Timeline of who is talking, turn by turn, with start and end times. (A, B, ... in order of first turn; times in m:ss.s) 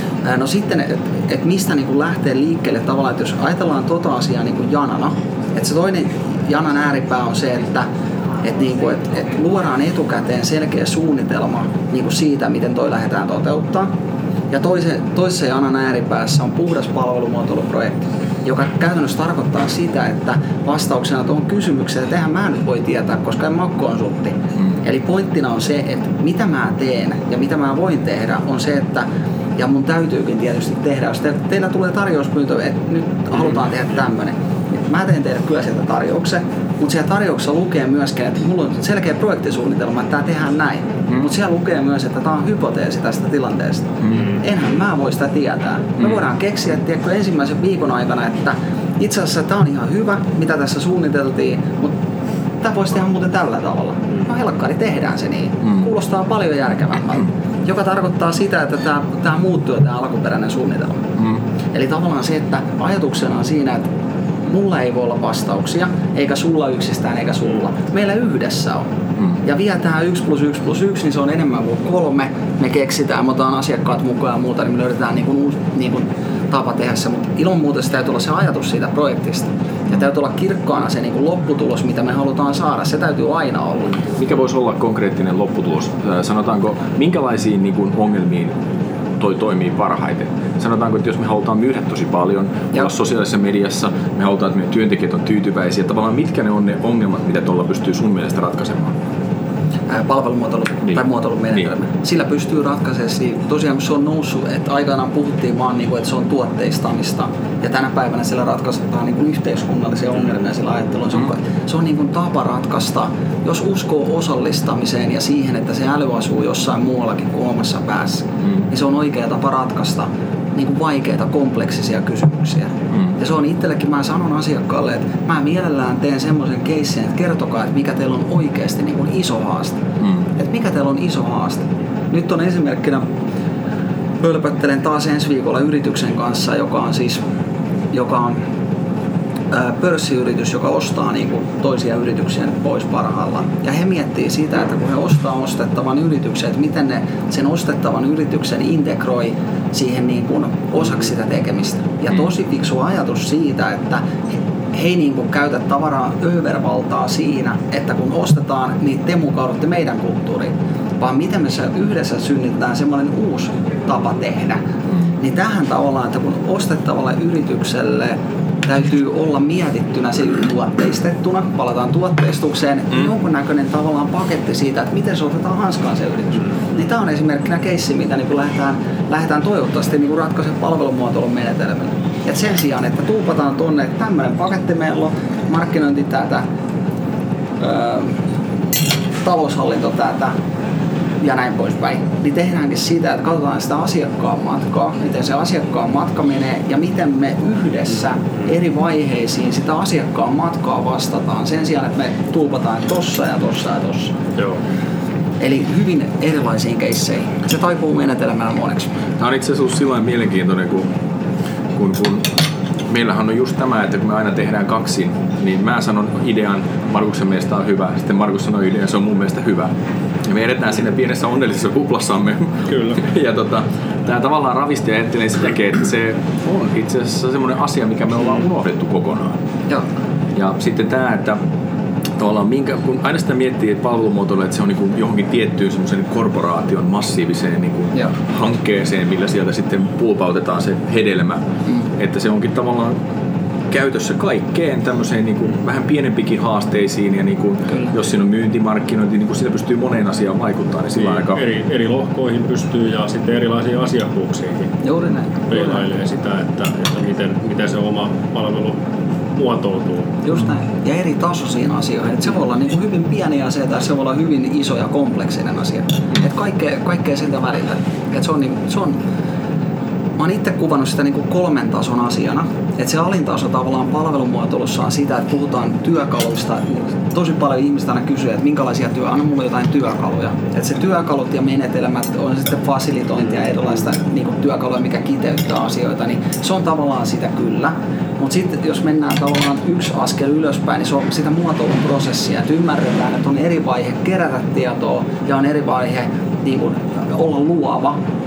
0:00.2-0:07.9 A
0:08.4-0:13.9 A
0:14.5-0:51.9 A
0:44.0-0:44.3 B
0:52.6-1:01.0 A
1:01.7-1:03.9 A
1:04.4-1:08.9 A
1:09.4-1:24.0 A
1:24.2-1:28.6 B
1:29.2-1:39.0 B
1:39.9-2:09.8 A
2:02.9-2:03.2 B
2:10.0-2:10.3 B
2:10.4-2:13.1 A
2:14.2-2:17.2 A
2:17.9-2:18.4 A
2:19.5-2:44.6 A
2:45.2-3:06.4 A
3:07.6-3:08.2 A
3:09.2-3:10.3 A
3:11.2-3:24.2 A
3:25.4-3:29.0 A
3:29.2-3:30.9 B
3:31.8-3:32.3 B
3:32.9-3:39.7 B
3:40.2-3:49.4 B
3:42.7-3:43.0 C
3:50.4-3:51.4 B
3:52.2-4:01.4 B
4:02.0-4:03.0 B
4:03.7-4:11.4 B
4:11.2-4:14.7 C
4:14.8-4:15.8 A
4:15.5-4:18.8 C
4:19.3-4:20.2 C
4:20.2-4:29.0 A
4:30.2-4:58.0 A